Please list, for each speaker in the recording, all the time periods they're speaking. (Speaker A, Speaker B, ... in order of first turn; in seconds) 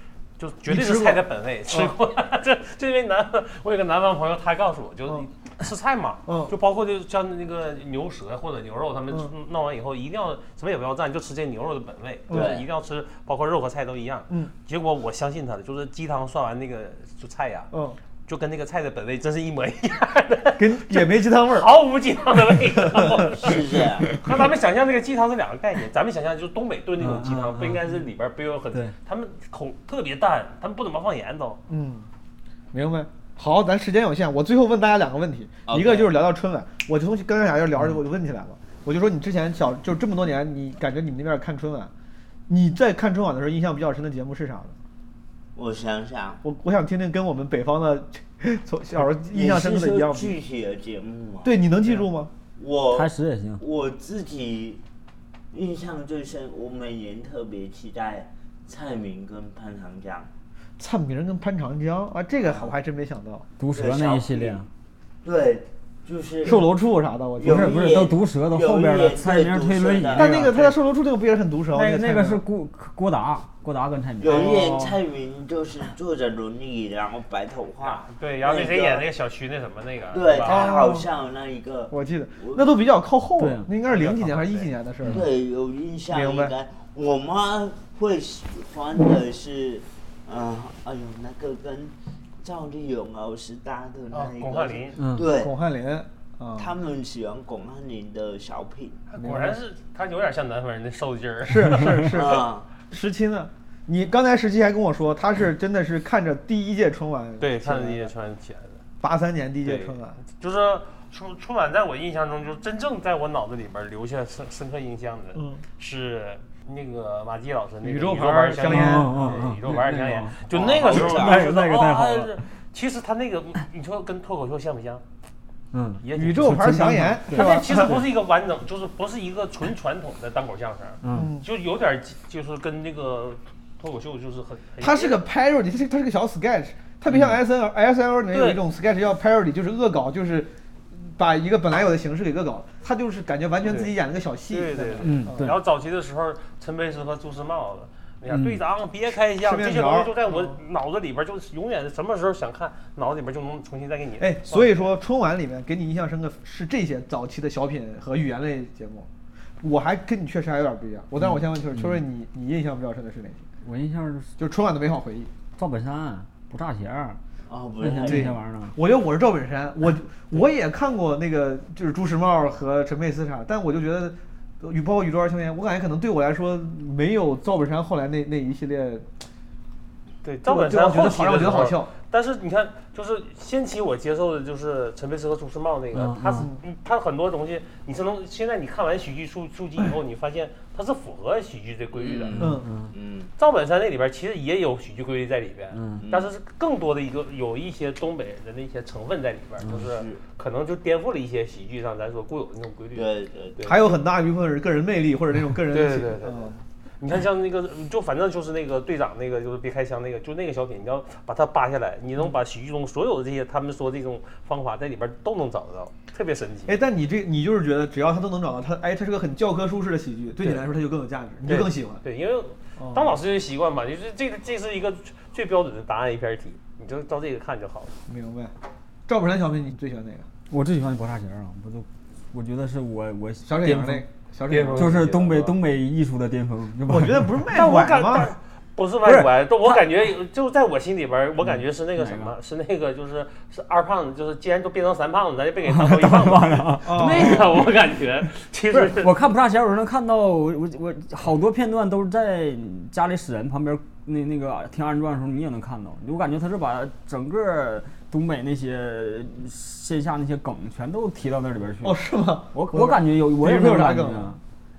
Speaker A: 0.4-17.7, 18.3-31.6, 77.8-80.7, 83.9-84.7, 94.1-95.0, 99.1-102.3, 107.4-108.8, 109.6-125.0, 126.0-135.2, 138.3-138.6, 143.7-144.0, 144.5-154.9, 180.2-192.4, 193.4-203.8, 205.7-216.8, 221.4-227.9, 234.5-235.6, 237.5-249.2
Speaker B: 0.7-1.9, 6.3-6.5, 17.7-18.0, 20.6-21.7, 22.9-23.3, 31.7-32.1, 32.7-41.9, 42.5-44.8, 46.4-50.4, 51.4-52.3, 60.8-63.5, 66.5-67.9, 70.2-72.4, 74.4-74.8, 80.4-81.1, 81.9-85.2, 86.1-86.5, 95.3-96.8, 99.2-99.6, 101.5-108.1, 109.0-110.2, 115.3-115.6, 117.8-119.4, 126.1-128.1, 131.1-131.5, 134.8-145.6, 149.4-150.6, 154.2-159.1, 159.6-163.4, 164.4-165.3, 168.1-179.1, 180.4-181.9, 186.4-186.6, 192.4-192.7, 203.7-206.6, 216.7-222.0, 222.8-223.2, 228.1-228.5, 229.1-230.3, 233.4-235.0, 236.9-238.3, 246.8-247.5, 261.8-264.4
Speaker C: 12.3-12.7, 23.3-24.1, 35.7-36.2, 45.5-46.4, 49.2-51.5, 52.6-54.8, 55.5-60.3, 63.7-64.7, 65.2-66.7, 67.4-70.3, 74.2-79.1, 80.1-82.7, 85.1-95.5, 96.6-99.1, 102.1-102.7, 120.5-121.4, 167.5-168.4, 191.9-193.3, 196.0-196.3, 199.7-200.2, 202.9-203.7
Speaker D: 27.0-27.8, 52.9-53.6, 63.6-64.7, 67.4-70.7, 71.7-74.8, 83.4-83.7, 95.0-95.3, 118.6-122.4, 125.7-128.0, 131.0-131.3, 137.1-137.4, 145.0-145.6, 148.3-148.6, 161.2-162.0, 163.6-164.3, 165.6-167.2, 167.8-168.8, 185.9-186.5, 192.4-192.9, 195.7-196.0, 230.5-234.0, 234.7-237.4, 239.0-239.3, 241.4-242.4, 245.6-247.9, 248.7-264.4